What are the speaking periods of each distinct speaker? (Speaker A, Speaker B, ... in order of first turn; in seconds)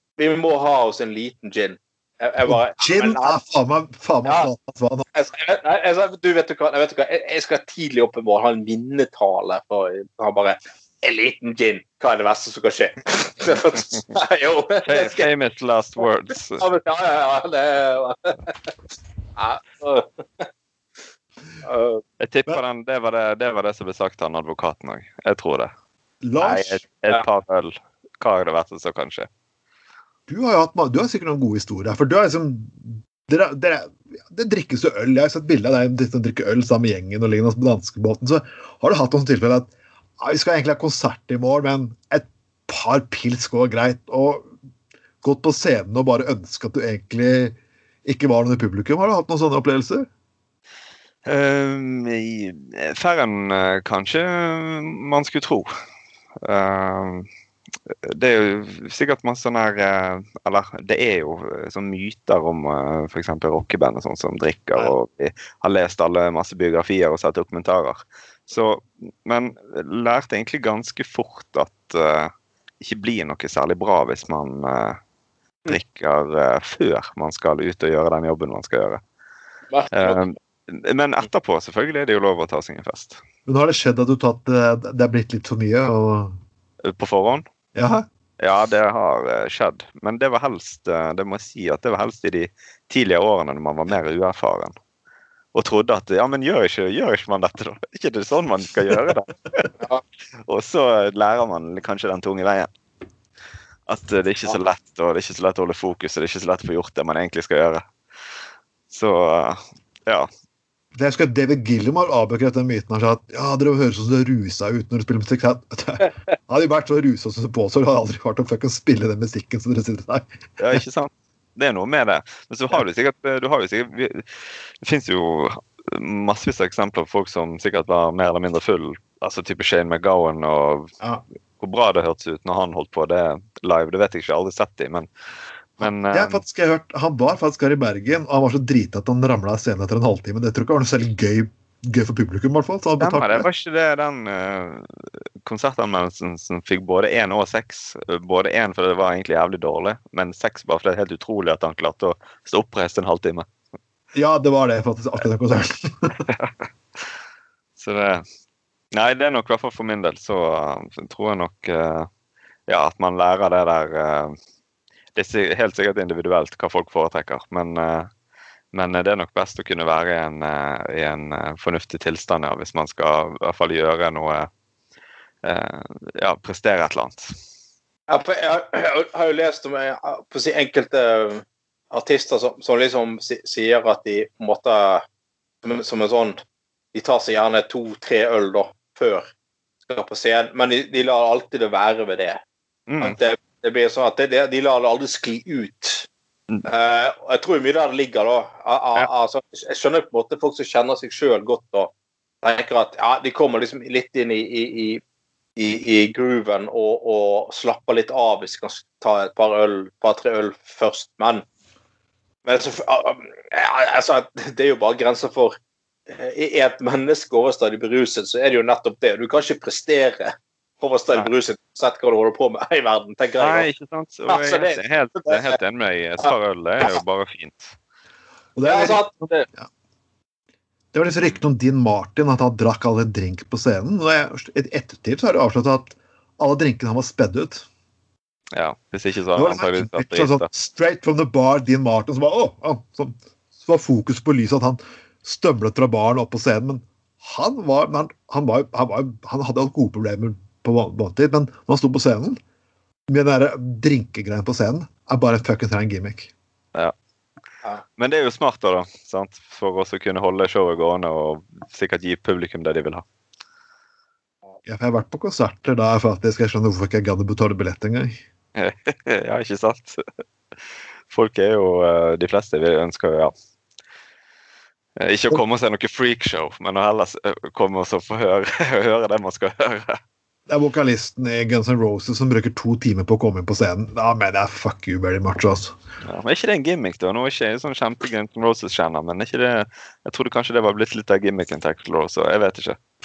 Speaker A: 0.2-3.4, 4.2-4.5, 5.1-15.3, 16.6-18.7, 19.4-20.5, 21.6-22.0, 79.7-80.2, 178.1-185.0, 185.6-186.4, 186.9-189.3, 189.8-192.4, 193.0-196.1, 196.6-201.9, 202.4-205.0, 205.6-211.4, 212.4-215.6, 216.1-223.7, 224.3-225.6, 228.6-229.4
Speaker B: 2.5-5.0, 26.2-26.8, 30.3-44.5, 45.2-50.1, 83.5-86.4, 87.7-88.0, 110.9-120.8, 135.8-143.5, 154.1-156.2, 228.6-229.7, 230.9-237.7, 239.3-252.4, 253.1-256.3, 264.6-268.2, 280.5-285.7
Speaker C: 14.8-16.6, 22.2-25.7, 26.4-29.3, 51.2-55.7, 56.4-57.3, 58.0-75.0, 75.7-79.0, 79.9-83.2, 86.8-87.4, 88.4-94.7, 95.5-99.7, 100.5-102.7, 103.9-107.8, 108.9-110.3, 120.6-130.9, 131.6-135.1, 135.8-136.4, 143.0-153.5, 157.8-158.2, 158.9-162.1, 162.7-164.3, 165.1-168.1, 168.7-174.5, 175.4-177.3, 192.9-193.2, 223.4-227.7, 238.5-240.5, 258.0-263.0, 268.6-270.0, 271.1-273.3, 275.0-280.0, 286.0-292.8